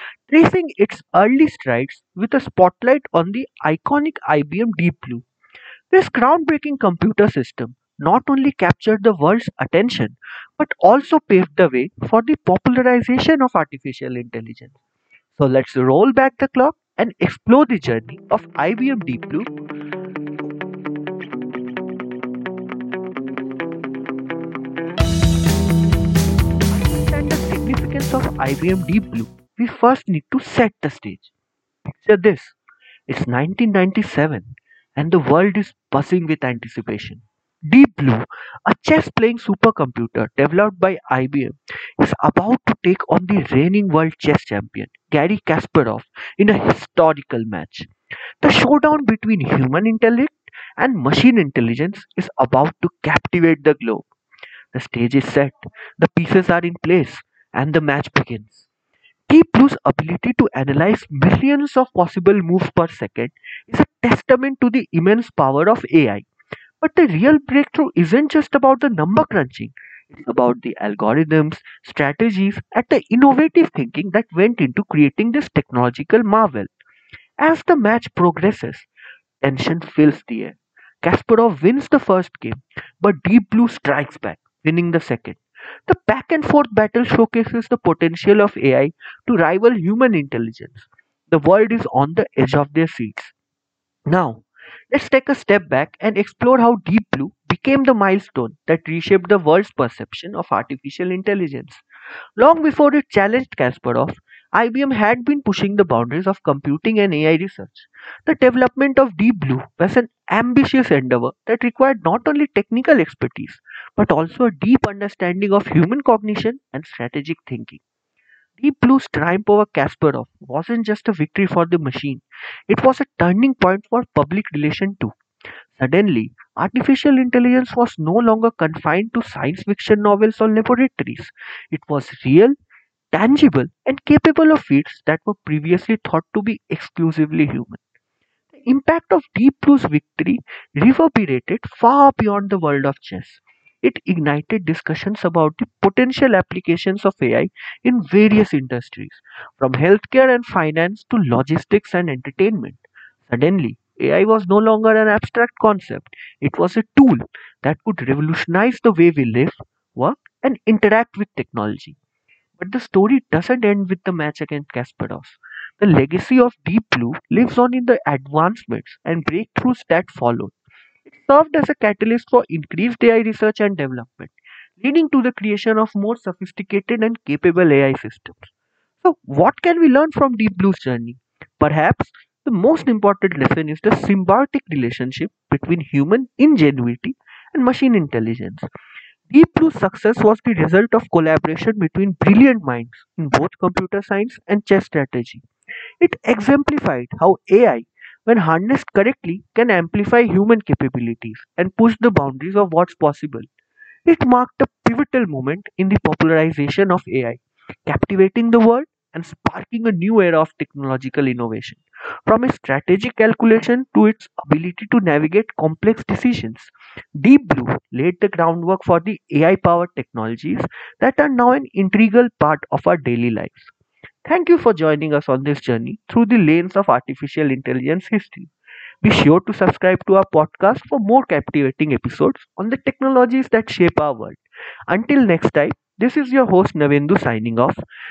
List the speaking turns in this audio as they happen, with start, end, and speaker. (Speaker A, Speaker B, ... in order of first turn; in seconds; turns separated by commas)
Speaker A: 0.3-5.2, Speaker A: 5.9-14.7, Speaker A: 15.3-19.5, Speaker A: 26.8-31.3, Speaker A: 31.9-32.5, Speaker A: 33.1-47.9, Speaker A: 48.4-54.1, Speaker A: 54.7-58.6, Speaker A: 59.3-66.2, Speaker A: 66.8-76.7, Speaker A: 77.4-78.9, Speaker A: 79.4-93.3, Speaker A: 94.1-101.8, Speaker A: 102.4-117.8, Speaker A: 118.6-125.1, Speaker A: 125.7-132.6, Speaker A: 133.1-137.8, Speaker A: 138.5-162.0, Speaker A: 162.6-170.5, Speaker A: 171.1-188.7, Speaker A: 189.3-195.4, Speaker A: 196.0-203.4, Speaker A: 204.1-223.7, Speaker A: 224.2-228.5, Speaker A: 229.0-237.8